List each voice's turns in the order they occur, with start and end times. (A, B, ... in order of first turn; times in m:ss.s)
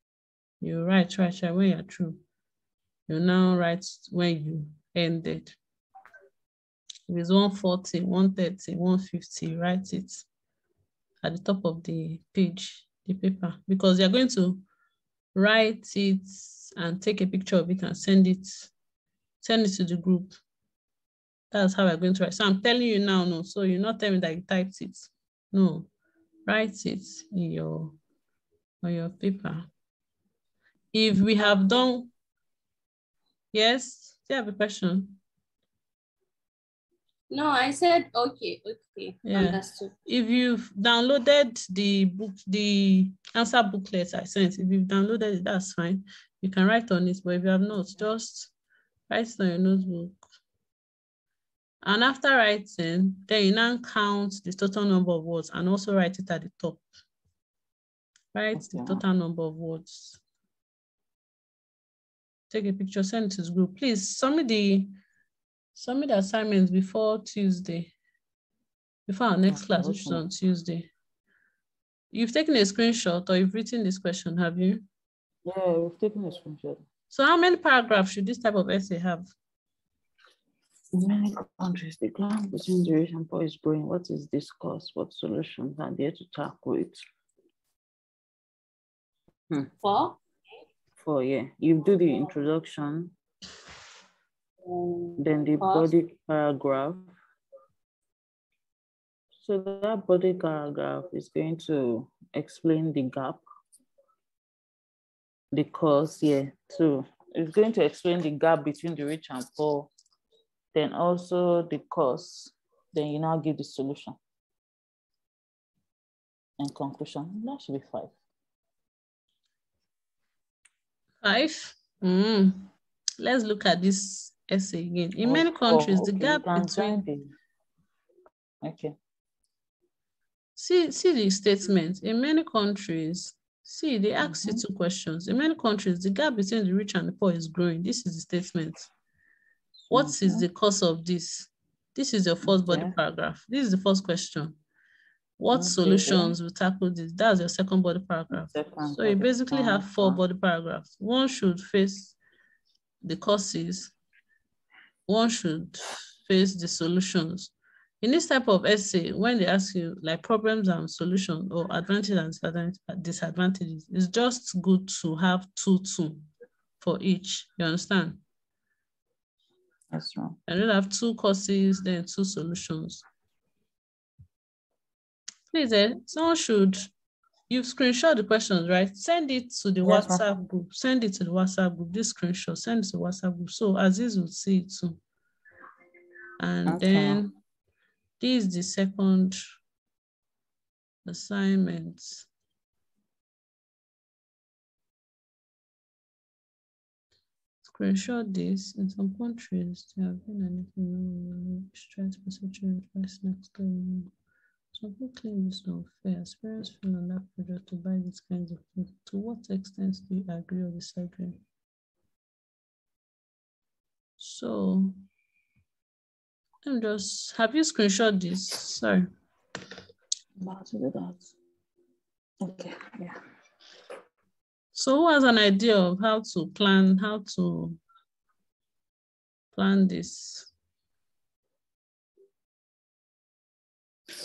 0:00.6-0:02.2 A
0:03.1-0:05.6 A
0:07.1-0:10.3 A
0:11.2-0:14.6 A
0:15.3-0:18.7 A
0:19.4-0:20.4 A
0:21.5-0:25.9 A
0:26.4-0:28.0 A
0:28.8-0:29.7 A
0:30.9-0:32.1 A
0:33.5-0:35.2 A
0:37.3-0:39.9 B
0:39.2-0:48.5 A
0:49.1-0:50.2 A
0:51.8-0:56.8 A
0:58.3-1:00.2 A
0:58.5-0:59.0 C
1:02.5-1:04.9 A
1:05.7-1:07.9 A
1:09.1-1:10.9 A
1:09.5-1:10.2 C
1:12.1-1:14.8 A
1:15.4-1:16.8 C
1:17.1-1:19.3 A
1:20.9-1:27.0 C
1:29.8-1:30.2 B
1:31.0-1:33.1 C
1:34.6-1:35.9 B
1:35.2-1:37.1 C
1:39.4-1:43.4 C
1:45.5-1:49.9 C
1:50.7-1:54.2 C
1:56.6-1:58.1 C
2:01.2-2:07.0 A
2:05.2-2:07.3 C
2:08.6-2:08.9 C
2:10.6-2:18.9 A
2:14.2-2:14.6 C
2:19.9-2:24.6 A
2:19.9-2:20.4 C
2:22.4-2:22.9 C
2:25.4-2:32.2 A
2:25.5-2:26.4 C
2:28.3-2:30.2 C
2:33.0-2:33.9 A
2:35.1-2:46.3 A
2:46.8-2:48.2 A
2:49.9-2:50.4 C
2:50.5-2:53.0 A
2:55.5-2:56.9 A
2:57.5-3:05.0 A
2:59.8-3:00.2 C
3:06.4-3:07.3 A
3:06.7-3:07.2 C
3:08.2-3:09.4 A
3:11.0-3:12.3 A
3:17.6-3:24.1 A
3:24.7-3:31.4 A
3:34.2-3:34.9 A
3:36.6-3:39.1 A
3:40.4-3:41.3 C
3:42.4-3:43.2 C
3:44.7-3:47.8 A
3:49.5-3:50.5 A